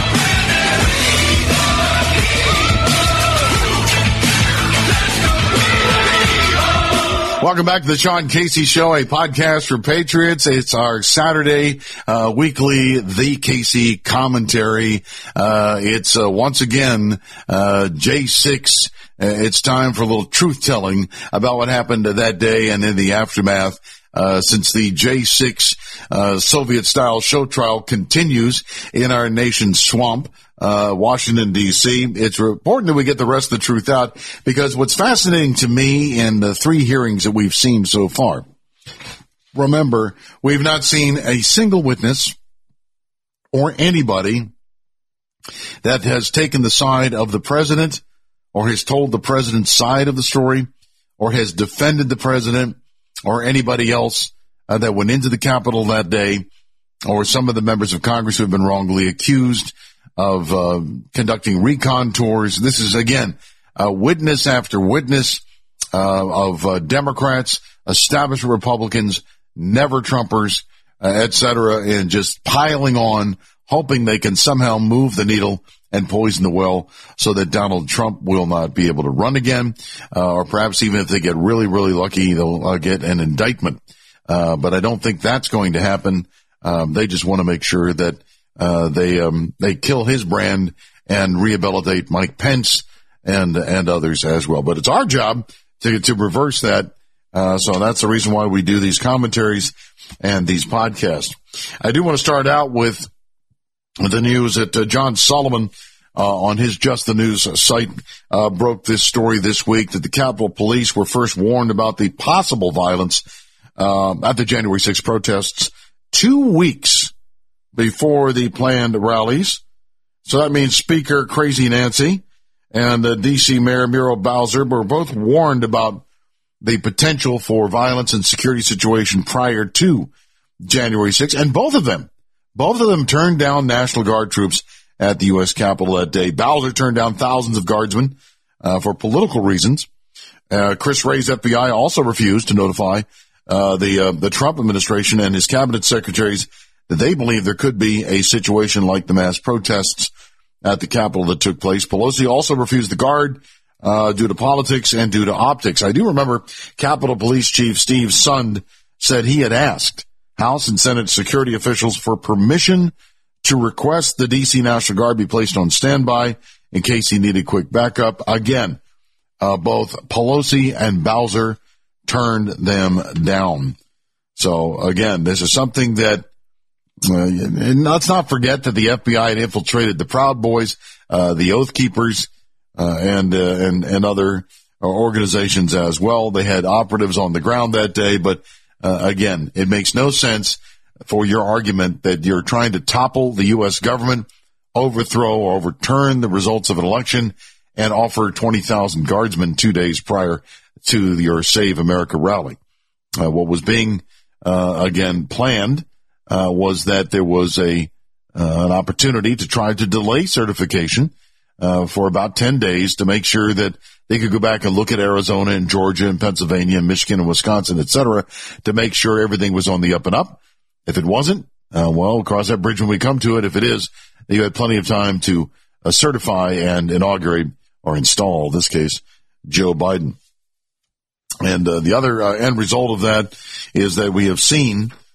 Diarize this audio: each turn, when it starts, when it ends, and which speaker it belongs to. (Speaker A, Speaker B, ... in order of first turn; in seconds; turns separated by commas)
Speaker A: 7.4-38.4, Speaker A: 39.5-42.3, Speaker A: 43.5-44.5, Speaker A: 45.8-48.0, Speaker A: 48.5-50.7, Speaker A: 51.2-56.4, Speaker A: 57.0-65.4, Speaker A: 65.9-103.1, Speaker A: 104.0-113.2, Speaker A: 113.8-117.1, Speaker A: 117.7-119.6, Speaker A: 120.2-126.0, Speaker A: 126.6-130.1, Speaker A: 130.7-139.9, Speaker A: 140.5-150.1, Speaker A: 150.6-168.8, Speaker A: 169.4-173.8, Speaker A: 174.4-176.2, Speaker A: 177.1-202.6, Speaker A: 203.2-230.2, Speaker A: 231.4-234.9